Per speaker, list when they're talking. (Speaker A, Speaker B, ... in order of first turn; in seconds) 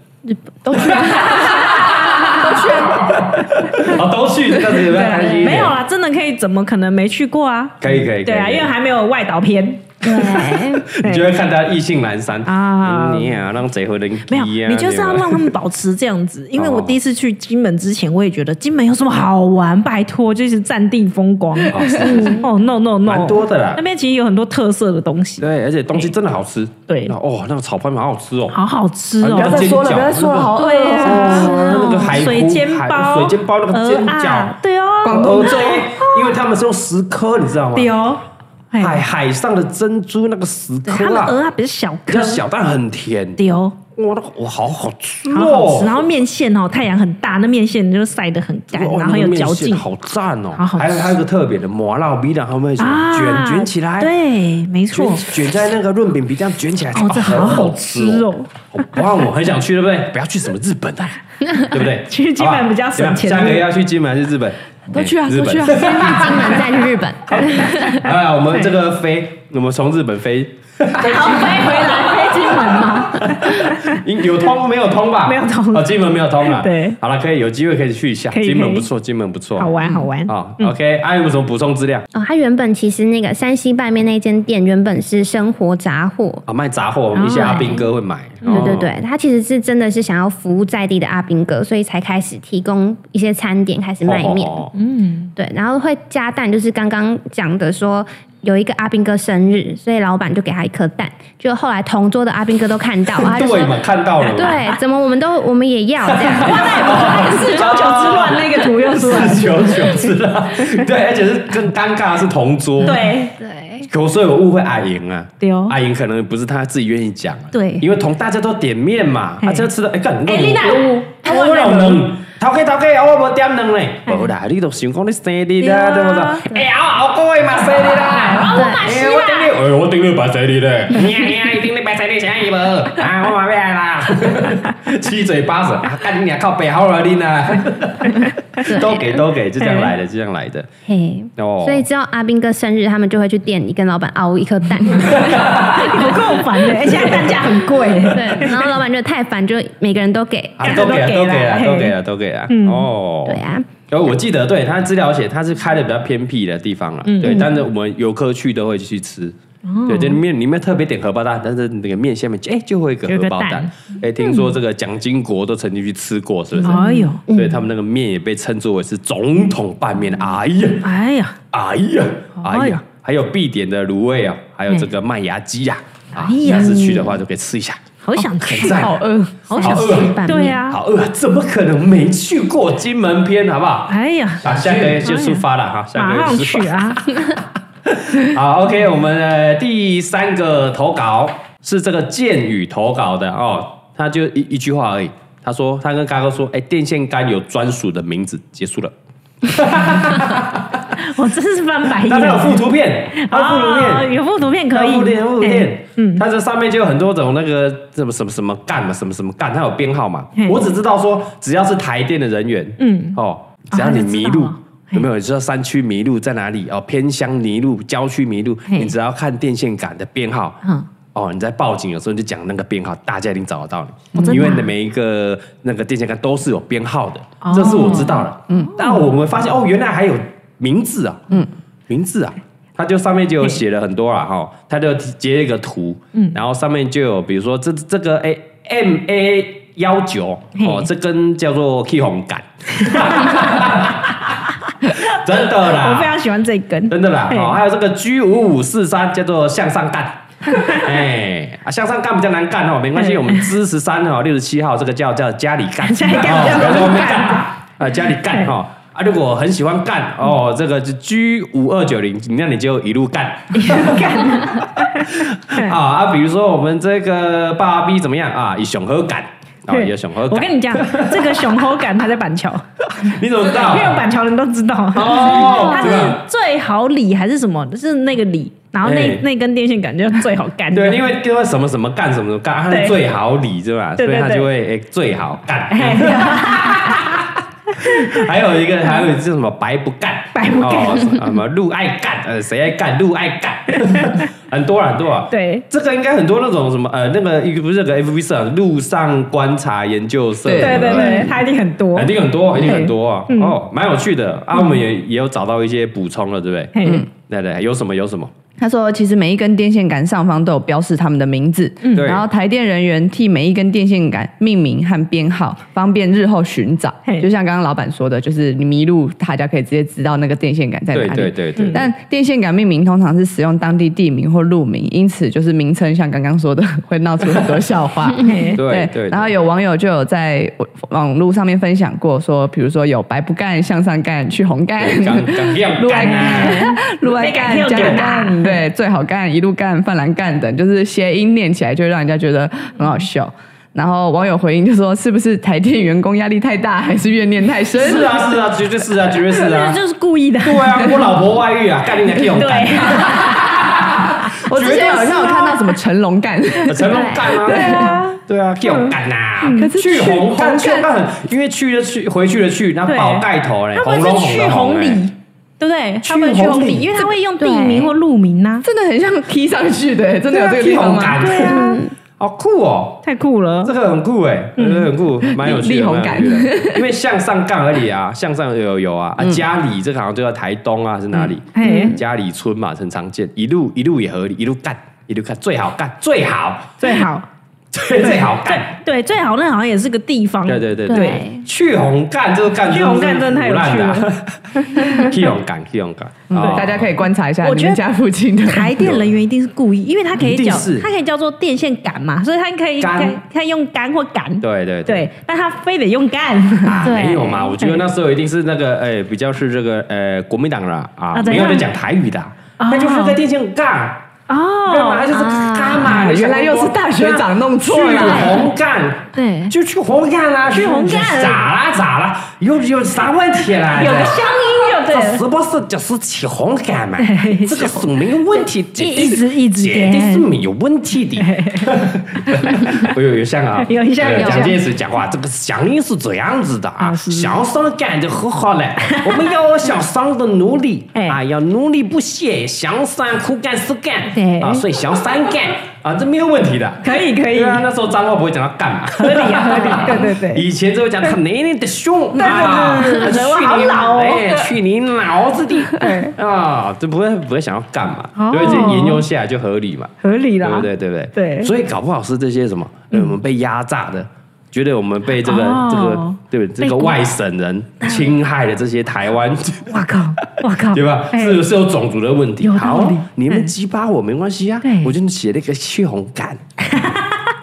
Speaker A: 0.6-3.3, 29.3-32.1, 35.0-35.9, 64.9-66.8, 178.2-179.6, 224.1-224.5, 228.5-228.7, 300.4-301.4, 306.8-307.1, 308.6-348.4, 352.2-358.0, 359.5-360.9, 368.6-371.2, 375.3-376.9, 396.3-398.8, 415.6-418.4, 452.2-453.1
Speaker B: 0.7-1.6, 3.0-5.8, 7.8-8.7, 10.1-15.5, 16.6-17.0, 21.7-22.5, 23.1-23.8, 25.4-28.6, 29.2-34.5, 35.0-37.9, 38.8-41.4, 42.1-43.4, 43.9-46.0, 48.7-54.1, 54.9-66.7, 67.3-79.7, 80.3-82.0, 86.5-88.9, 94.0-94.7, 103.2-104.8, 106.0-113.1, 113.9-140.7, 141.4-141.9, 145.0-147.5, 150.6-170.9, 171.5-177.9, 178.4-179.0, 179.5-200.9, 202.0-204.1, 204.7-220.6, 221.1-231.4, 231.9-246.2, 246.9-271.7, 272.8-274.1, 274.9-276.2, 278.8-279.2, 280.7-301.4, 301.9-306.8, 307.3-308.3, 311.9-312.3, 320.9-321.9, 328.6-329.3, 334.8-336.6, 337.7-338.0, 347.7-349.8, 350.4-353.8, 354.4-355.4, 356.6-365.0, 366.0-367.0, 370.3-371.6, 372.2-373.0, 373.6-387.0, 387.7-388.7, 390.4-396.9, 398.8-399.1, 400.2-400.9, 402.8-403.2, 404.4-405.1, 406.6-414.0, 414.7-417.1, 417.6-476.4
Speaker C: 1.0-2.9, 4.7-11.3, 12.4-13.4, 14.3-26.1, 26.9-27.1, 28.5-29.8, 30.5-36.4, 37.8-39.0, 40.9-42.4, 43.4-43.8, 45.3-49.9, 50.5-51.2, 52.8-55.3, 56.9-59.1, 61.7-63.6, 67.7-67.9, 71.0-74.0, 75.2-75.9, 76.4-77.0, 78.3-78.9, 79.6-80.7, 87.1-87.9, 88.4-88.8, 94.7-95.3, 106.4-110.0, 112.8-113.4, 115.4-115.8, 117.5-117.9, 119.4-119.7, 120.2-122.1, 125.6-126.5, 127.9-129.5, 139.6-139.9, 145.6-148.7, 150.6-151.9, 152.5-152.9, 157.1-157.5, 159.6-160.2, 163.1-164.6, 166.6-167.2, 170.8-171.4, 172.4-172.8, 176.1-177.1, 178.0-178.9, 179.5-180.8, 183.9-187.1, 201.0-206.2, 210.4-210.6, 212.8-213.2, 213.7-215.0, 218.7-218.9, 224.1-224.7, 227.4-228.3, 240.6-240.9, 244.8-247.6, 250.5-250.9, 253.0-253.5, 255.8-257.6, 263.5-265.7, 269.7-272.6, 273.4-281.1, 282.7-283.0, 284.0-284.5, 285.7-287.2, 287.8-288.2, 290.4-291.3, 293.8-294.2, 295.3-295.6, 300.6-303.6, 306.8-307.1, 311.8-312.1, 321.6-321.9, 328.2-328.6, 335.9-338.6, 349.3-351.1, 352.2-355.6, 357.4-359.7, 362.9-368.6, 371.2-371.8, 373.0-373.7, 374.6-374.9, 381.6-382.0, 386.8-387.3, 388.0-391.3, 392.6-395.3, 396.4-396.7, 397.4-397.8, 398.4-407.8, 411.1-411.7, 412.6-413.2, 414.3-415.6, 417.8-418.4, 419.1-419.5, 420.5-421.5, 423.6-425.2, 427.0-427.9, 428.7-430.3, 431.2-431.8, 432.3-432.9, 433.6-434.6, 436.8-437.4, 438.8-439.3, 444.1-444.7, 446.8-447.7, 449.0-450.4, 452.2-454.5, 455.7-456.1, 458.2-459.1, 460.0-461.5, 462.9-463.2, 465.2-467.0, 467.8-468.1, 469.7-471.4, 472.4-473.5, 474.6-474.9, 476.7-477.3
Speaker D: 10.0-10.9, 22.1-22.4, 65.7-68.0, 82.1-86.4, 88.5-94.7, 95.4-107.3, 113.4-113.9, 128.5-128.8, 138.6-139.2, 140.9-145.7, 148.1-150.8, 153.3-153.7, 157.2-157.5, 166.7-167.6, 176.5-177.1, 179.6-180.6, 275.4-275.9, 356.8-357.3, 367.4-367.9, 371.4-371.9, 381.6-382.0, 390.9-391.4, 434.2-434.5